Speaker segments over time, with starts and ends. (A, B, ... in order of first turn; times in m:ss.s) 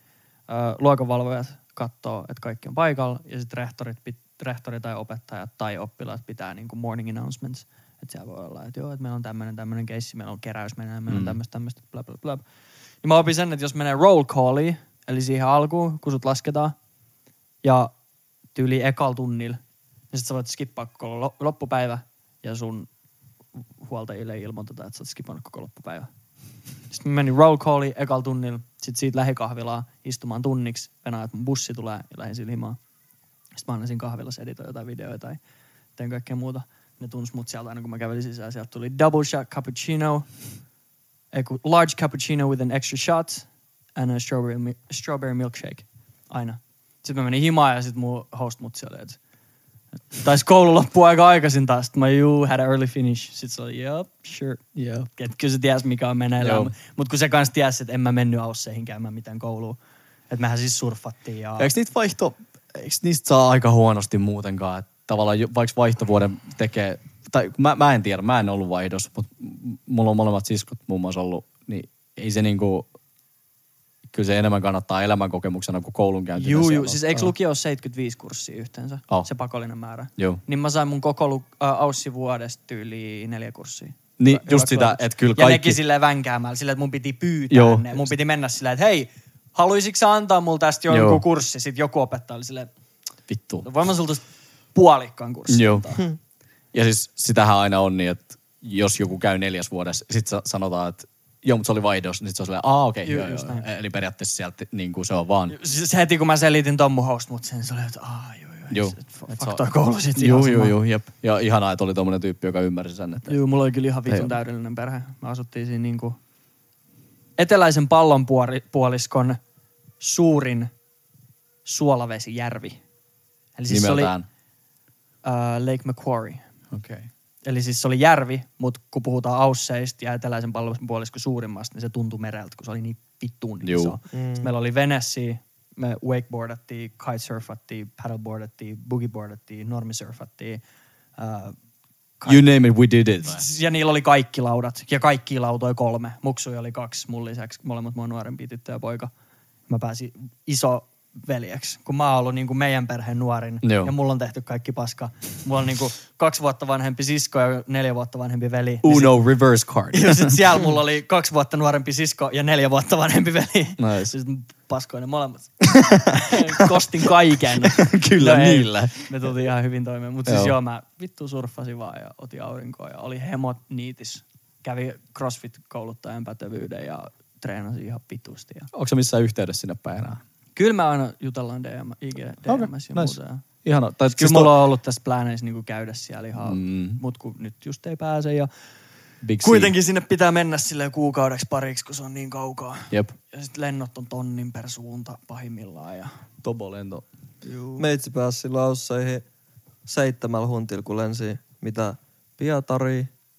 0:00.5-0:12.4 A
0:11.1-0:11.4 B
0:13.0-0:16.8 A
0:17.6-0:17.9 A
0:18.6-0:19.6 A
0:20.1-0:22.9 A
0:23.8-0:26.1 A
0:26.9-0:32.8 A
0:33.6-0:35.4 A
0:36.0-0:40.3 A
0:41.3-0:49.2 A
0:50.1-0:54.6 A
0:54.8-0:55.1 B
0:55.2-0:59.8 A
0:56.4-0:56.7 B
1:00.3-1:01.7 A
1:01.6-1:12.9 B
1:14.1-1:17.3 B
1:16.4-1:32.7 A
1:24.2-1:25.8 B
1:27.5-1:28.1 B
1:30.9-1:31.2 B
1:33.3-1:33.6 B
1:33.6-1:34.2 A
1:34.8-1:36.0 A
1:35.5-1:35.9 B
1:36.7-1:45.6 B
1:43.0-1:43.7 A
1:45.5-1:50.8 A
1:48.7-1:49.6 B
1:50.2-1:53.4 B
1:53.3-1:56.2 A
1:54.1-1:54.3 B
1:57.4-1:59.4 A
2:00.0-2:00.7 A
2:01.6-2:02.8 A
2:03.6-2:04.1 A
2:03.7-2:04.2 B
2:05.2-2:06.4 A
2:06.7-2:07.1 B
2:07.4-2:20.6 A
2:13.6-2:13.9 B
2:14.1-2:14.5 C
2:21.2-2:21.6 A
2:22.2-2:22.5 A
2:22.2-2:23.4 B
2:23.2-2:29.1 A
2:29.7-2:39.2 A
2:33.6-2:33.9 B
2:38.8-2:40.4 B
2:39.9-2:58.7 A
2:43.8-2:44.1 B
2:45.6-2:46.7 B
2:47.5-2:49.3 B
2:50.2-2:50.5 B
2:58.7-3:00.2 B
3:00.6-3:03.4 A
3:02.5-3:04.5 B
3:04.1-3:08.5 A
3:06.4-3:07.0 B
3:09.2-3:09.7 B
3:09.4-3:16.1 A
3:16.4-3:17.0 B
3:17.4-3:17.8 A
3:17.8-3:19.2 C
3:19.9-3:23.1 C